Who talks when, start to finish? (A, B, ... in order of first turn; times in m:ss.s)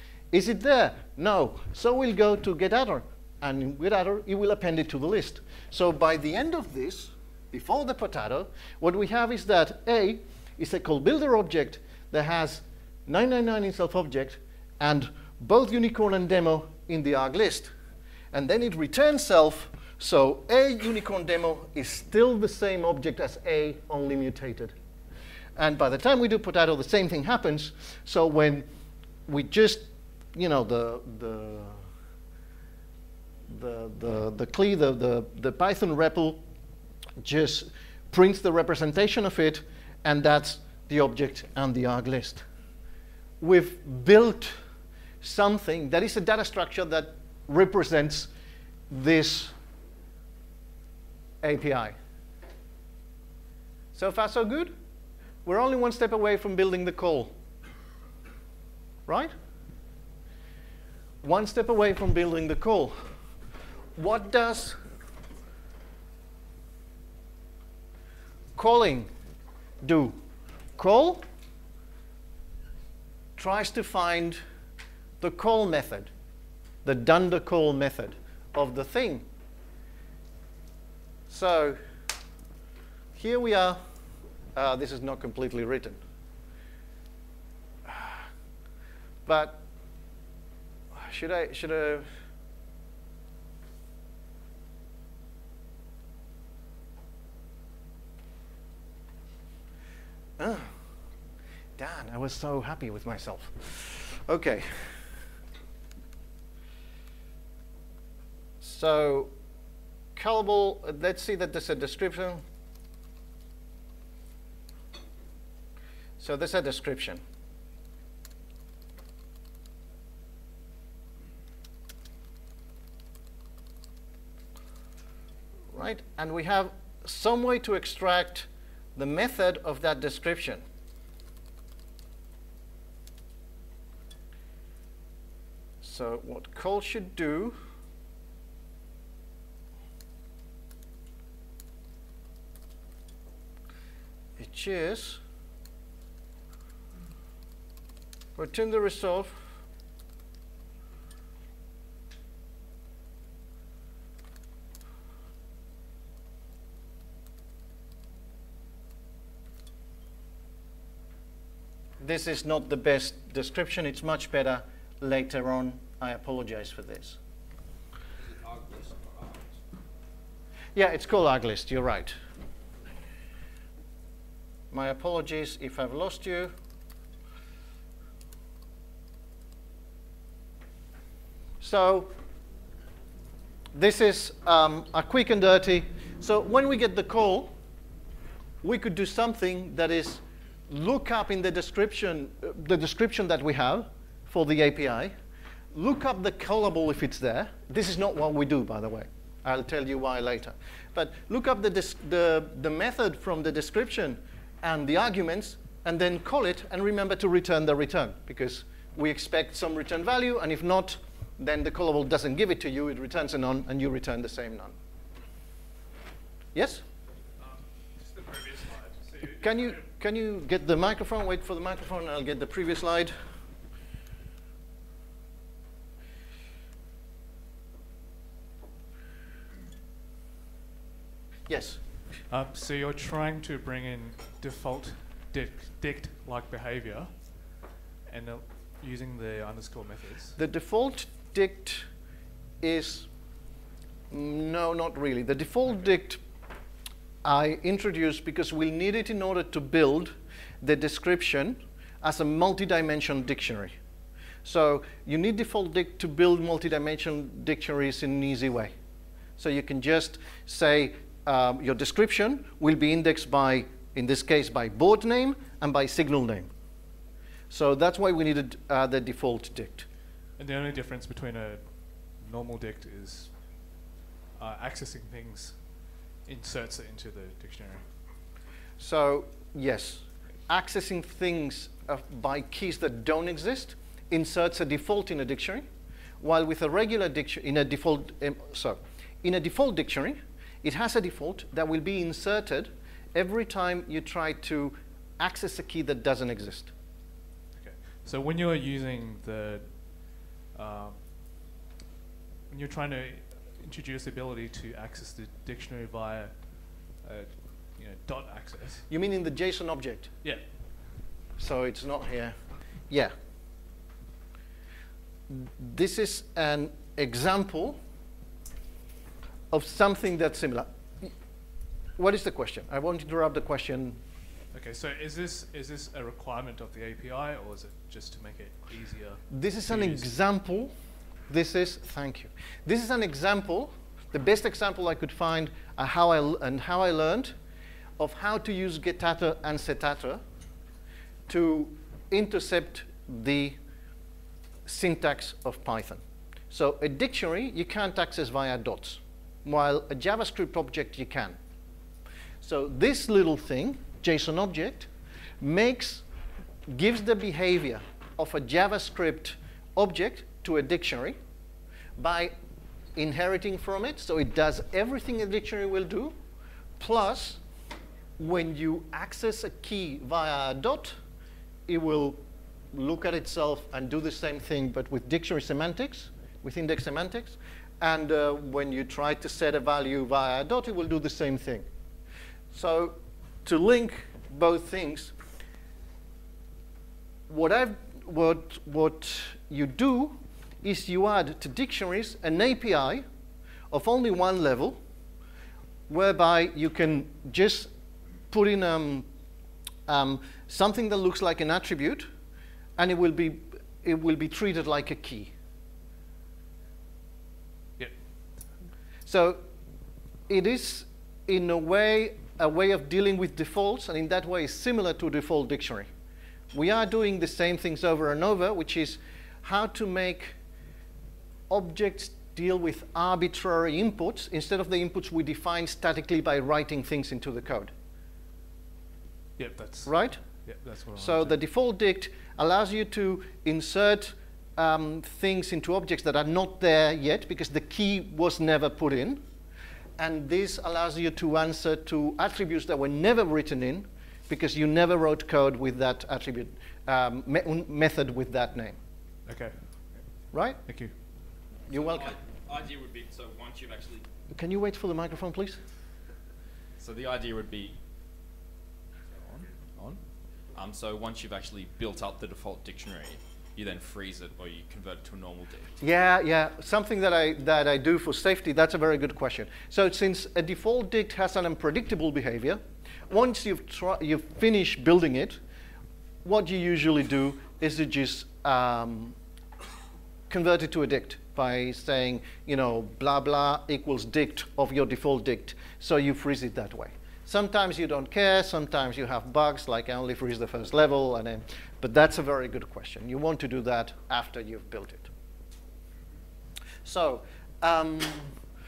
0:00.3-0:17.7 A
0:18.3-0:24.8 A
0:25.6-0:28.6 A
0:29.3-0:31.8 A
0:33.5-0:36.4 A
0:37.2-0:42.4 A
0:43.4-0:44.6 A
0:45.2-0:48.3 A
0:48.9-0:49.5 A
0:51.4-0:52.0 A
0:53.9-0:54.8 A
0:55.4-0:57.3 A
0:59.1-0:59.3 A
1:01.2-1:03.0 A
1:04.0-1:04.8 A
1:08.6-1:09.1 A
1:09.8-1:10.2 A
1:10.8-1:11.2 A
1:13.4-1:14.4 A
1:15.2-1:16.1 A
1:16.8-1:19.2 A
1:21.3-1:21.8 A
1:23.2-1:23.8 A
1:24.6-1:26.0 A
1:27.9-1:28.3 A
1:29.3-1:29.6 A
1:30.9-1:32.1 A
1:40.4-1:40.7 A
1:41.8-1:45.0 A
1:48.6-1:49.3 A
1:50.2-1:52.4 A
1:56.2-1:57.2 A
2:05.7-2:10.6 A
2:15.8-2:17.6 A
2:24.4-2:25.2 A
2:28.4-2:29.4 A
2:42.0-2:47.2 A
2:48.2-2:49.5 B
2:50.8-2:52.2 A
2:54.7-2:56.5 A
3:01.6-3:02.1 A
3:03.7-3:07.5 A
3:08.6-3:15.1 A
3:15.7-3:34.8 A
3:36.6-3:36.8 A
3:37.4-3:39.5 C
3:39.4-3:43.2 A
3:51.5-3:51.8 A
3:52.3-4:00.4 C
4:00.4-4:01.9 A
4:02.6-4:03.1 A
4:04.1-4:06.2 A
4:07.2-4:13.8 A
4:14.4-4:18.7 A
4:19.4-4:26.5 A
4:27.5-4:29.9 A
4:30.4-4:38.1 C
4:38.8-4:45.7 A
4:46.2-4:56.7 A
4:57.6-5:01.4 C
5:02.5-5:08.9 C
5:08.9-5:10.1 A
5:10.2-5:10.5 C
5:11.4-5:12.4 A
5:12.9-5:13.1 A
5:15.3-5:17.8 A
5:19.5-5:21.1 A
5:22.0-5:24.0 A
5:24.5-5:30.1 C
5:29.3-5:30.7 A
5:31.3-5:37.3 A
5:38.0-5:40.2 A
5:41.3-5:43.6 A
5:44.7-5:51.4 A
5:52.4-5:54.9 A
5:55.4-5:56.0 A
5:56.7-6:01.2 A
6:02.0-6:02.3 A
6:03.0-6:06.1 A
6:06.8-6:07.4 A
6:08.2-6:11.0 A
6:11.7-6:12.2 A
6:12.7-6:21.7 A
6:22.5-6:25.1 A
6:27.3-6:33.0 A
6:33.7-6:34.8 A
6:35.9-6:37.7 A
6:38.3-6:39.1 A
6:39.9-6:42.1 A
6:42.8-6:45.3 A
6:47.8-6:48.5 C
6:49.1-6:49.4 A
6:50.3-6:55.9 A
6:56.5-7:00.4 A
7:01.5-7:07.7 A
7:09.4-7:11.4 C
7:09.9-7:10.2 A
7:11.0-7:19.2 A
7:20.0-7:28.8 A
7:29.3-7:30.9 C
7:30.3-7:30.6 A
7:31.7-7:32.1 A
7:31.7-7:34.1 B
7:34.3-7:35.6 A
7:36.8-7:37.8 B
7:39.8-7:40.0 C
7:40.6-7:45.7 B
7:45.8-7:55.4 A
7:56.2-7:59.2 A
8:00.3-8:15.1 A
8:16.8-8:18.3 A